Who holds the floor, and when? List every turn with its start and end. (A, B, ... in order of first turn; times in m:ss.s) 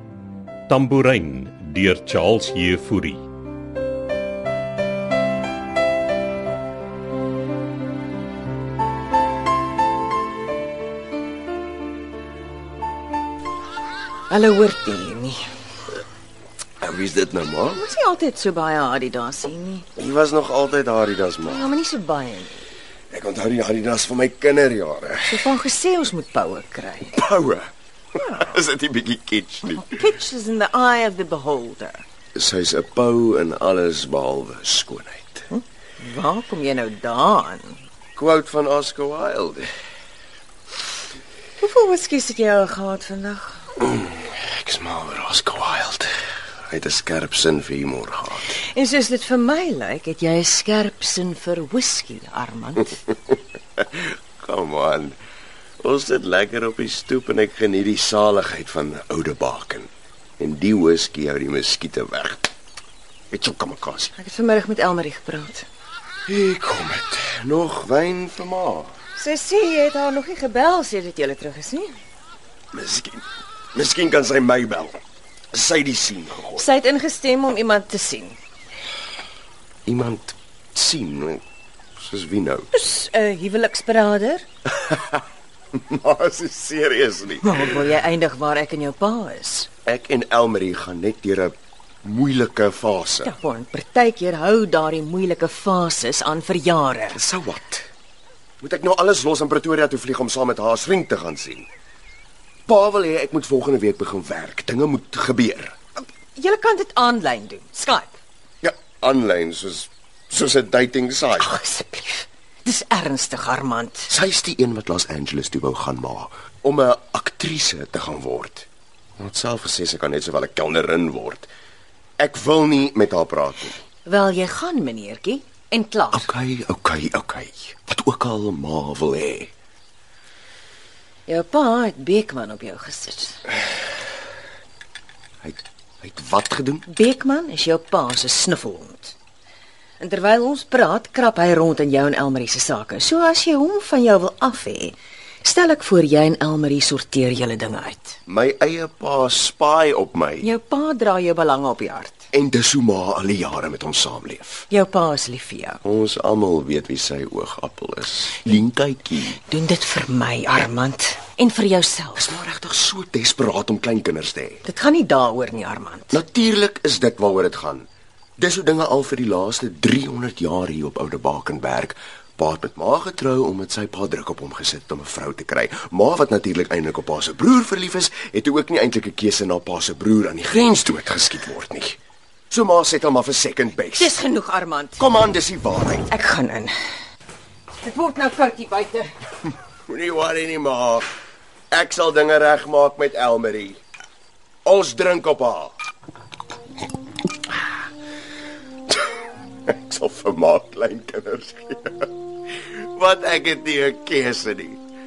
0:00.7-0:03.2 A
0:14.3-0:15.4 B
0:16.8-0:17.8 C
0:17.7-0:19.9 B
0:19.9-0:21.7 C
0:21.4-0:22.7 B
0:23.1-0:25.5 C
0:25.3-0:27.2 B
0:27.1-0:29.9 C
0:29.7-0:32.0 B
0:32.4-0:35.5 C
0:35.5-0:37.8 B
0:38.2-0:39.7 C
0:41.6-0:43.7 B
0:43.8-0:46.1 C
0:46.7-0:48.6 C
0:48.6-0:53.0 B
0:53.8-0:55.2 C
0:55.8-1:02.5 C
1:03.3-1:04.1 C
1:04.2-1:05.6 B
1:06.3-1:08.9 C
1:09.2-1:11.9 B
1:12.7-1:15.0 C
1:15.5-1:16.7 C
1:16.6-1:18.4 B
1:19.8-1:21.4 C
1:22.0-1:22.7 C
1:22.7-1:24.4 B
1:24.7-1:25.2 C
1:25.7-1:27.9 C
1:27.4-1:29.7 B
1:29.8-1:33.3 C
1:33.2-1:37.2 B
1:37.1-1:37.9 C
1:38.6-1:41.7 C
1:42.7-1:45.7 C
1:46.4-1:48.2 B
1:48.6-1:51.5 C
1:51.4-1:54.1 B
1:54.1-1:58.7 C
1:59.2-2:01.5 C
2:02.2-2:03.8 C
2:04.0-2:06.3 B
2:06.1-2:09.5 C
2:11.3-2:13.4 B
2:15.4-2:16.9 C
2:16.9-2:19.1 B
2:20.0-2:28.2 B
2:28.3-2:30.5 C
2:30.4-2:32.2 B
2:32.3-2:34.7 C
2:34.7-2:35.8 B
2:35.8-2:39.4 C
2:39.4-2:42.3 B
2:42.1-2:44.6 C
2:44.6-2:46.2 B
2:46.1-2:47.9 C
2:48.4-3:02.0 C
3:02.5-3:04.2 C
3:04.0-3:05.0 B
3:05.0-3:06.1 C
3:06.1-3:06.7 B
3:07.8-3:09.1 B
3:09.9-3:11.1 C
3:11.7-3:13.8 C
3:14.6-3:15.7 C
3:19.7-3:22.1 C
3:22.7-3:24.8 C